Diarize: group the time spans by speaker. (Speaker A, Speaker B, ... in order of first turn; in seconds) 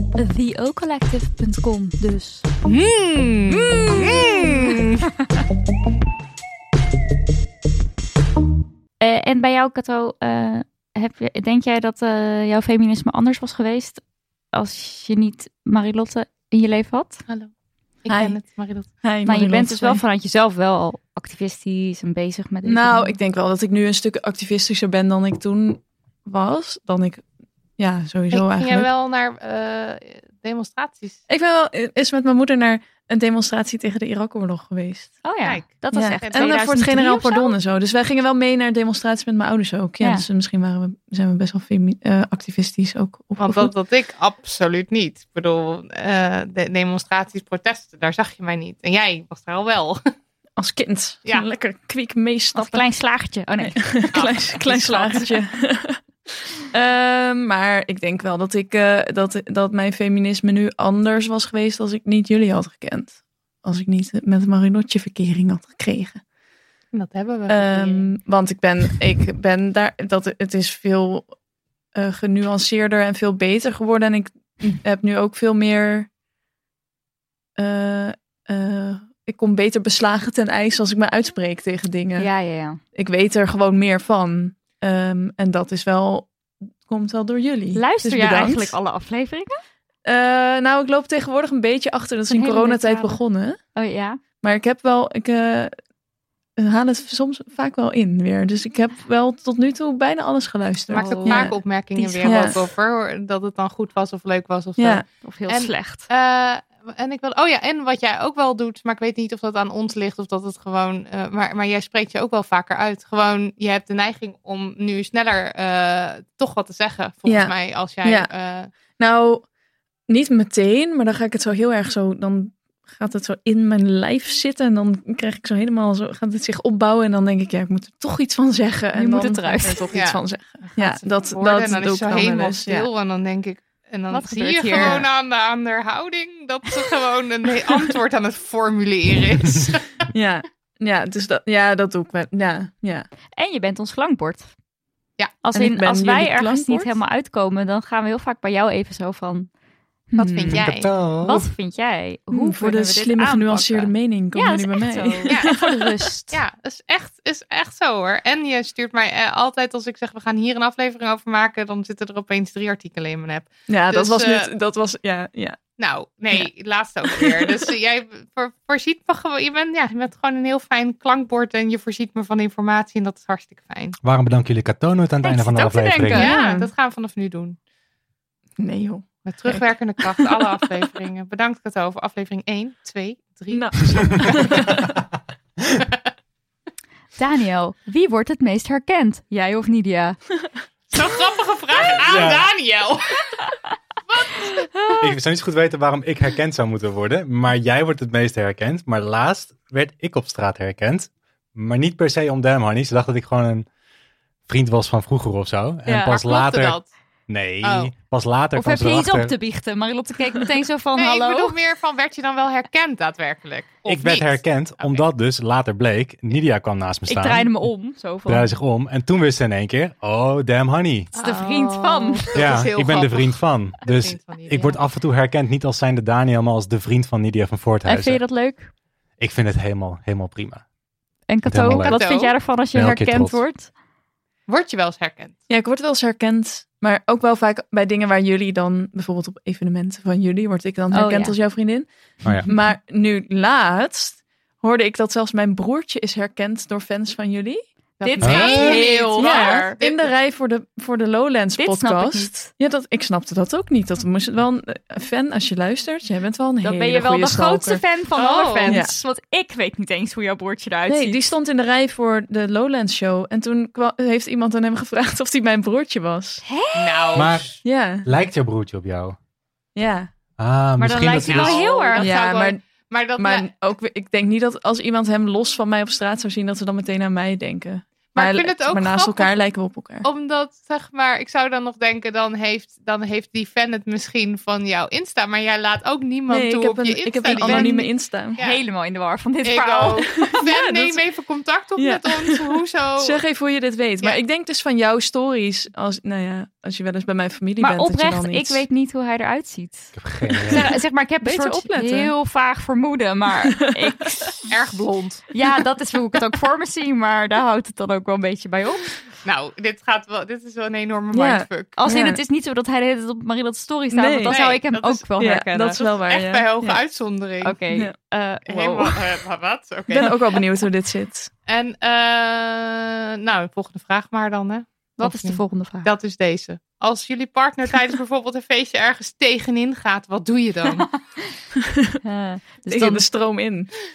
Speaker A: 0.2-2.5, 3.5-4.8, 9.0-14.0, 14.5-17.2, 19.2-23.2, 35.2-37.5, 52.5-55.3, 82.2-82.8, 87.7-89.6, 92.3-93.2, 93.8-94.2, 100.9-101.5, 105.2-106.1, 128.9-129.9, 134.1-135.1, 143.4-144.5, 145.4-149.5, 150.1-156.4, 175.2-176.3, 187.2-190.2, 208.6-211.6, 217.1-218.5, 221.2-222.3, 227.9-228.7, 231.3-233.7, 240.9-241.4, 248.0-249.8, 251.6-252.5, 256.6-261.3, 266.4-267.3, 270.8-272.1, 287.4-287.8, 288.4-290.3, 297.6-299.9, 300.5-304.5, 305.3-308.9, 311.8-315.8, 317.4-319.0, 325.0-325.9, 332.0-333.1
Speaker B: 2.6-5.1, 18.0-18.9, 28.3-31.2, 35.4-36.8, 43.4-50.0, 54.1-54.5, 66.9-68.1, 100.9-118.7, 129.9-140.0, 145.2-145.4, 150.2-150.9, 155.3-155.6, 156.3-164.5, 165.8-174.0, 176.1-177.6, 179.2-184.4, 190.9-193.2, 194.1-195.0, 205.9-206.9, 207.6-207.9, 211.0-215.0, 221.1-224.8, 231.8-232.3, 234.5-235.4, 248.0-250.1, 258.1-258.8, 266.8-267.5, 271.2-273.5, 278.1-279.3, 280.0-288.6, 289.4-293.2, 304.5-305.3, 309.2-311.8, 314.3-315.1, 315.8-317.6, 318.5-320.2, 321.5-330.9
Speaker C: 18.1-18.4, 19.0-20.0, 22.7-27.2, 27.8-28.9, 31.3-35.1, 35.9-43.7, 50.6-52.8, 53.6-56.0, 56.7-66.2, 67.5-71.3, 72.0-76.1, 77.6-82.3, 83.0-86.3, 86.9-88.8, 90.0-93.6, 94.4-95.7, 96.6-102.6, 104.8-105.0, 117.3-118.3, 119.0-119.4, 120.1-132.9, 134.8-135.1, 140.1-143.1, 145.6-147.0, 152.3-155.9, 163.7-165.6, 167.1-167.6, 176.2-176.7, 178.6-180.6, 183.5-184.8, 235.5-241.9, 242.4-247.6, 248.2-257.8, 258.7-258.9, 260.9-266.4, 267.6-268.1, 269.8-270.1, 272.0-272.6, 273.2-280.1, 286.3-288.4, 290.2-291.0, 291.8-298.6, 300.5-302.1, 311.1-312.2, 313.9-314.4, 315.2-316.8, 319.9-321.3, 332.7-333.7
Speaker D: 150.5-151.5, 174.0-176.3, 192.0-192.5, 195.0-203.7, 204.5-209.3, 213.9-217.5, 218.3-221.1, 222.3-228.2, 229.2-230.6, 231.4-232.0, 232.7-233.4, 248.2-248.8, 267.2-269.2, 270.4-271.7, 300.0-300.6